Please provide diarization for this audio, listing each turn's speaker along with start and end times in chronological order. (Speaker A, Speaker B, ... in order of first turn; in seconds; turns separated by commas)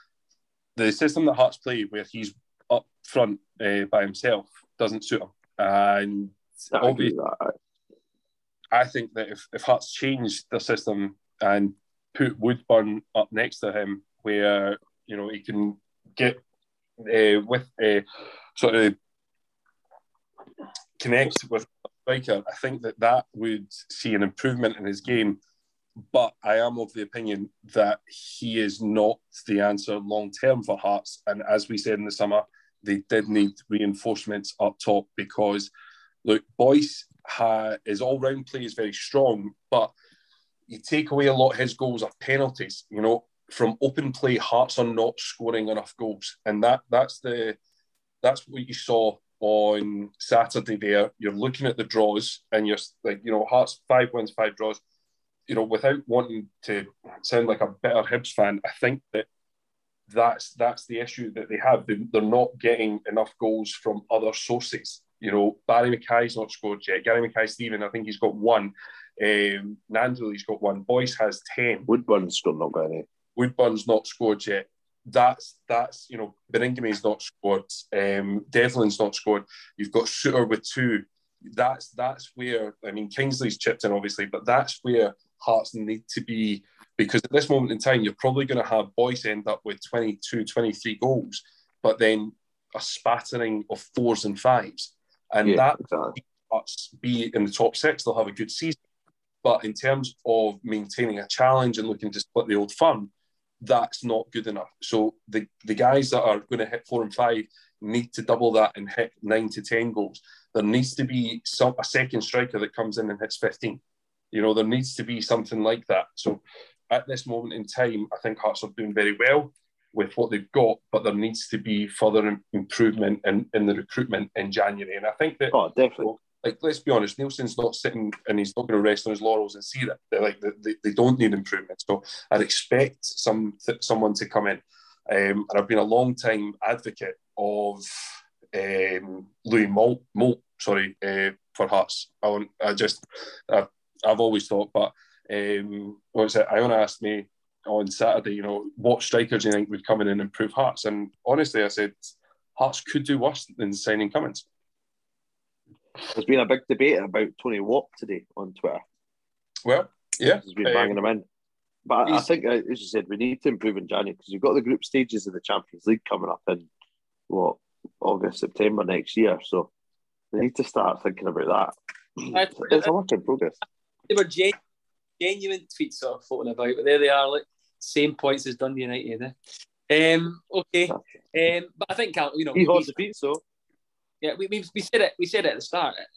Speaker A: 0.8-7.1, Speaker B: 6.7-7.5, Speaker A: 8.7-16.4, Speaker A: 17.0-18.0, Speaker A: 18.6-18.9, Speaker A: 21.0-25.4, Speaker A: 26.1-35.7, Speaker A: 36.2-39.9, Speaker A: 40.7-47.6, Speaker A: 48.2-54.8, Speaker A: 55.5-59.3, Speaker A: 60.1-71.9, Speaker B: 71.9-73.0, Speaker A: 73.3-98.8, Speaker B: 95.4-96.2, Speaker A: 99.4-103.1, Speaker A: 103.6-113.8, Speaker A: 114.3-137.8, Speaker B: 125.5-126.1, Speaker A: 138.5-154.4, Speaker B: 156.1-158.8, Speaker A: 159.6-161.0, Speaker B: 160.4-161.2, Speaker B: 161.8-166.7, Speaker B: 167.3-169.7, Speaker B: 170.3-173.6, Speaker C: 172.3-172.9, Speaker C: 174.1-174.6, Speaker C: 175.2-179.3, Speaker C: 179.9-182.9, Speaker B: 182.5-183.4, Speaker C: 184.2-186.0